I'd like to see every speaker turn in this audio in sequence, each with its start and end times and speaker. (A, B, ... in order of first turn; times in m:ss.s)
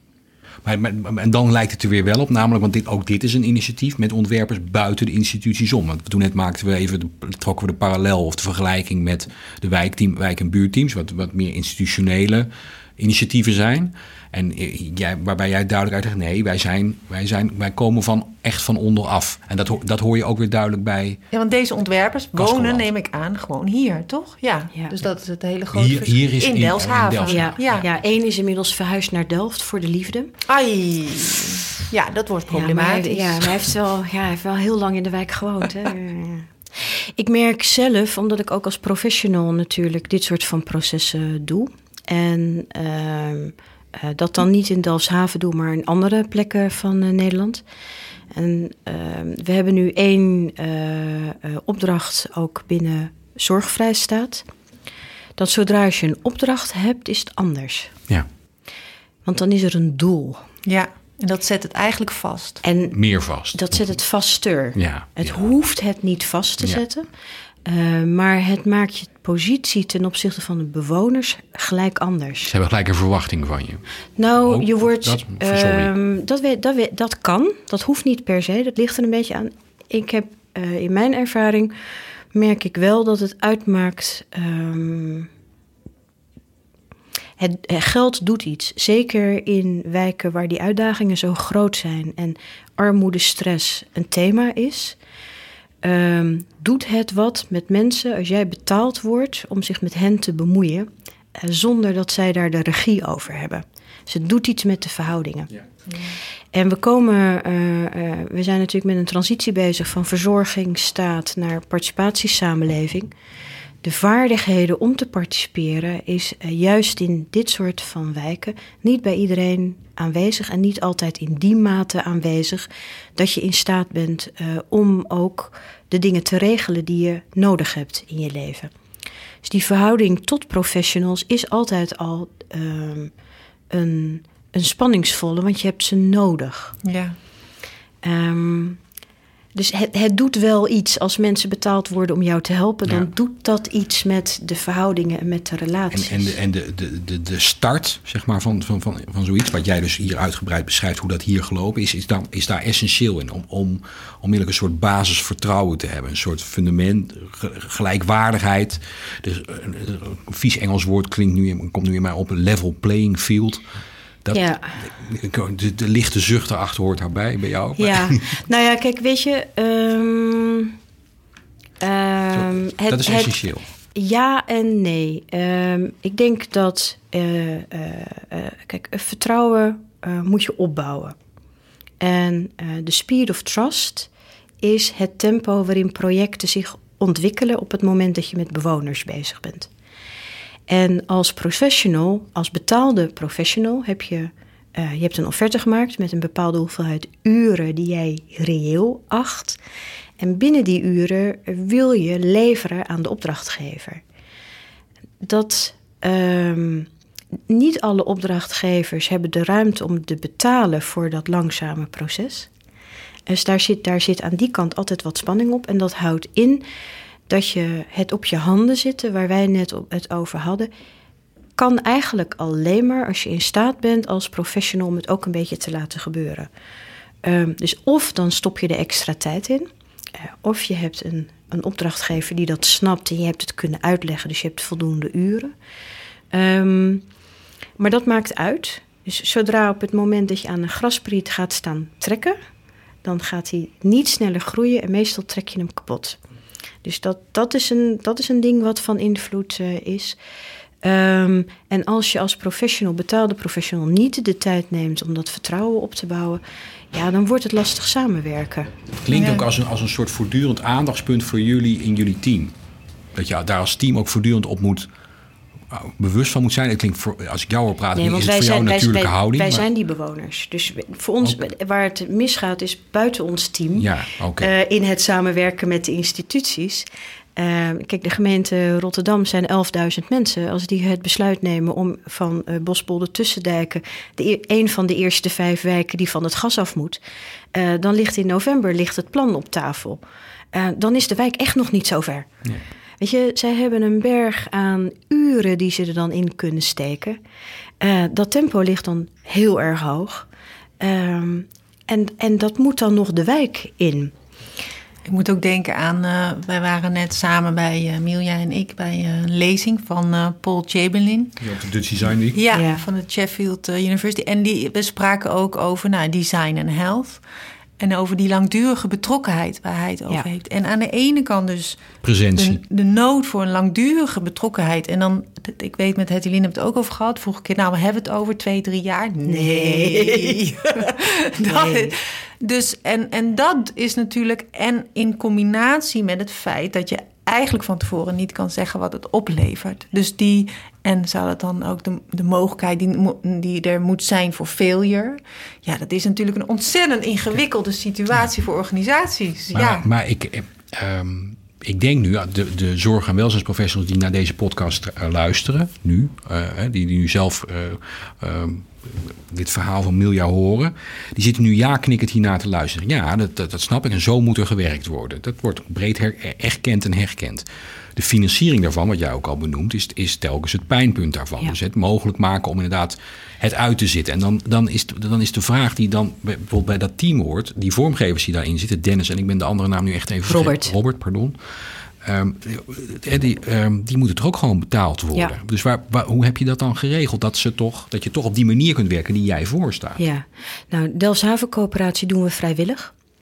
0:00.6-0:21.2 A
0:21.3-0:27.8 B
0:22.3-0:22.8 A
0:25.7-0:27.8 A
0:27.3-0:30.3 C
0:30.5-0:33.6 B
0:32.5-0:47.6 C
0:48.3-0:54.4 C
0:55.4-0:57.9 C
0:59.3-1:00.4 C
1:00.6-1:02.6 B
1:02.6-1:03.0 C
1:02.9-1:03.8 A
1:03.5-1:07.1 C
1:04.8-1:05.4 A
1:07.6-1:12.5 C
1:12.4-1:13.8 A
1:14.2-1:21.7 C
1:14.4-1:15.9 A
1:22.3-1:25.3 C
1:27.4-1:35.0 C
1:35.8-1:45.5 C
1:46.5-1:53.1 C
1:53.8-2:08.7 C
2:09.4-2:13.1 C
2:13.7-2:16.8 C
2:16.8-2:17.2 B
2:18.0-2:18.8 C
2:19.5-2:26.3 C
2:25.9-2:43.6 A
2:44.2-2:48.2 A
2:44.3-2:44.8 C
2:47.8-2:50.8 C
2:51.8-2:53.4 C
2:52.3-2:53.6 A
2:53.9-3:01.2 C
3:02.0-3:04.1 C
3:04.6-3:09.7 C
3:10.7-3:19.6 C
3:20.2-3:24.0 C
3:25.2-3:26.9 C
3:27.5-3:32.5 C
3:33.3-3:36.6 C
3:37.3-3:40.7 C
3:41.6-3:46.5 C
3:47.2-3:55.5 C
3:56.3-3:57.0 C
3:57.8-4:02.4 C
4:03.0-4:06.2 C
4:06.8-4:10.2 C
4:10.8-4:16.4 C
4:16.9-4:18.8 C
4:19.0-4:22.5 A
4:19.1-4:19.5 B
4:23.1-4:24.9 A
4:25.7-4:29.6 A
4:27.9-4:47.0 C
4:33.8-4:34.5 A
4:47.5-4:50.0 C
4:50.5-4:52.3 C
4:53.0-4:57.2 C
4:57.8-5:00.2 C
5:00.8-5:04.1 C
5:05.0-5:11.4 B
5:11.4-5:12.4 A
5:12.3-5:17.2 B
5:12.5-5:12.8 C
5:17.8-5:49.9 B
5:22.0-5:22.6 A
5:29.2-5:30.4 C
5:31.5-5:31.9 C
5:49.5-6:07.4 A
6:08.0-6:21.4 A
6:20.2-6:20.7 C
6:22.0-6:30.0 A
6:30.0-6:32.9 C